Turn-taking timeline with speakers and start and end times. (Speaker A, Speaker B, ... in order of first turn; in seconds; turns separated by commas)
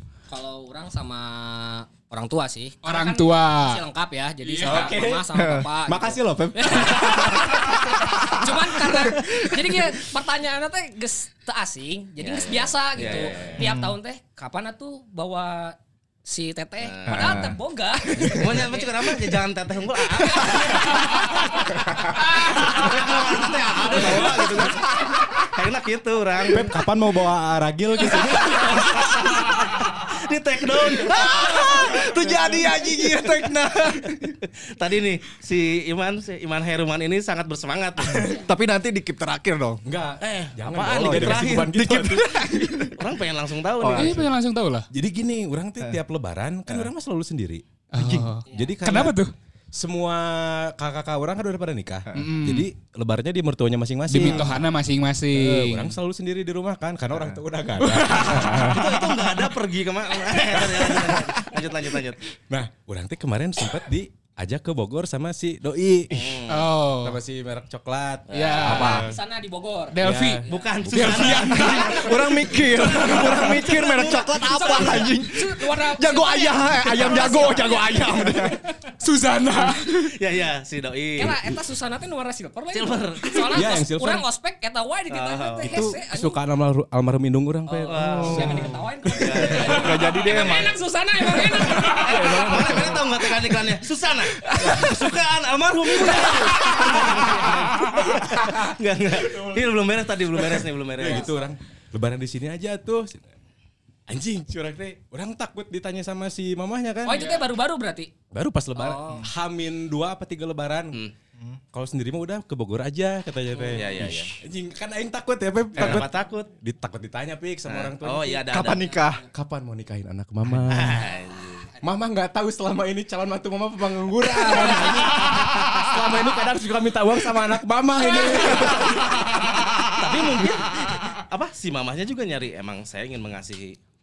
Speaker A: 0.3-19.1, Speaker B: 2.8-3.8, Speaker B: 4.4-4.9, Speaker C: 4.6-5.2, Speaker D: 5.3-5.7, Speaker C: 5.8-7.6, Speaker E: 12.2-13.6, Speaker D: 13.6-14.0, Speaker E: 16.8-17.4, Speaker D: 17.1-18.6, Speaker E: 18.2-21.3, Speaker A: 20.1-22.9, Speaker E: 22.2-26.7, Speaker A: 23.8-24.6, Speaker D: 23.9-25.3, Speaker C: 26.5-29.2, Speaker E: 28.4-32.4, Speaker D: 30.9-34.2, Speaker C: 32.1-32.6, Speaker E: 34.1-38.4, Speaker D: 38.0-39.8, Speaker A: 38.1-38.5, Speaker C: 39.8-42.3, Speaker E: 40.2-41.7, Speaker D: 40.9-43.0, Speaker E: 43.0-44.2, Speaker D: 43.8-44.3, Speaker B: 43.9-44.9, Speaker C: 44.9-49.2, Speaker B: 47.9-49.3, Speaker A: 48.5-48.8, Speaker C: 49.7-54.6, Speaker B: 52.1-52.7, Speaker B: 54.1-56.0, Speaker D: 54.2-54.5, Speaker C: 55.3-59.0, Speaker B: 57.9-58.7, Speaker E: 58.2-62.2, Speaker C: 60.3-61.4, Speaker C: 62.5-66.4, Speaker E: 66.1-66.7, Speaker B: 66.5-67.2, Speaker C: 67.0-69.2, Speaker E: 68.3-68.8, Speaker B: 68.3-68.9, Speaker D: 68.6-69.0, Speaker A: 68.6-70.7, Speaker B: 69.9-72.0, Speaker C: 70.0-71.8, Speaker E: 70.5-75.2, Speaker A: 71.6-72.5, Speaker D: 71.9-78.7, Speaker C: 73.1-73.5, Speaker A: 74.5-78.8, Speaker B: 79.0-80.1, Speaker E: 79.8-81.4, Speaker A: 81.2-86.4, Speaker E: 82.7-83.7, Speaker C: 83.5-84.2, Speaker E: 85.1-85.9, Speaker C: 85.6-88.7, Speaker A: 87.7-92.9, Speaker E: 87.9-90.0, Speaker D: 88.0-90.8, Speaker C: 91.4-93.2, Speaker B: 91.7-92.1, Speaker E: 92.2-101.3, Speaker D: 94.4-94.9, Speaker C: 94.6-94.9, Speaker D: 96.0-96.3, Speaker A: 96.7-97.3, Speaker C: 99.3-99.6, Speaker C: 100.5-103.3, Speaker A: 101.0-101.4, Speaker C: 104.1-107.2, Speaker A: 107.0-108.1, Speaker B: 107.1-107.4, Speaker C: 108.3-111.0, Speaker A: 108.7-109.3, Speaker C: 111.7-118.6, Speaker A: 113.6-113.8, Speaker E: 113.7-114.3, Speaker E: 115.8-116.5, Speaker D: 115.8-116.0, Speaker E: 117.6-118.9, Speaker D: 118.5-119.2, Speaker A: 118.7-119.3, Speaker C: 119.3-121.1, Speaker E: 120.6-121.7, Speaker A: 121.0-122.0, Speaker C: 121.8-129.2, Speaker E: 128.1-133.8, Speaker B: 128.7-129.7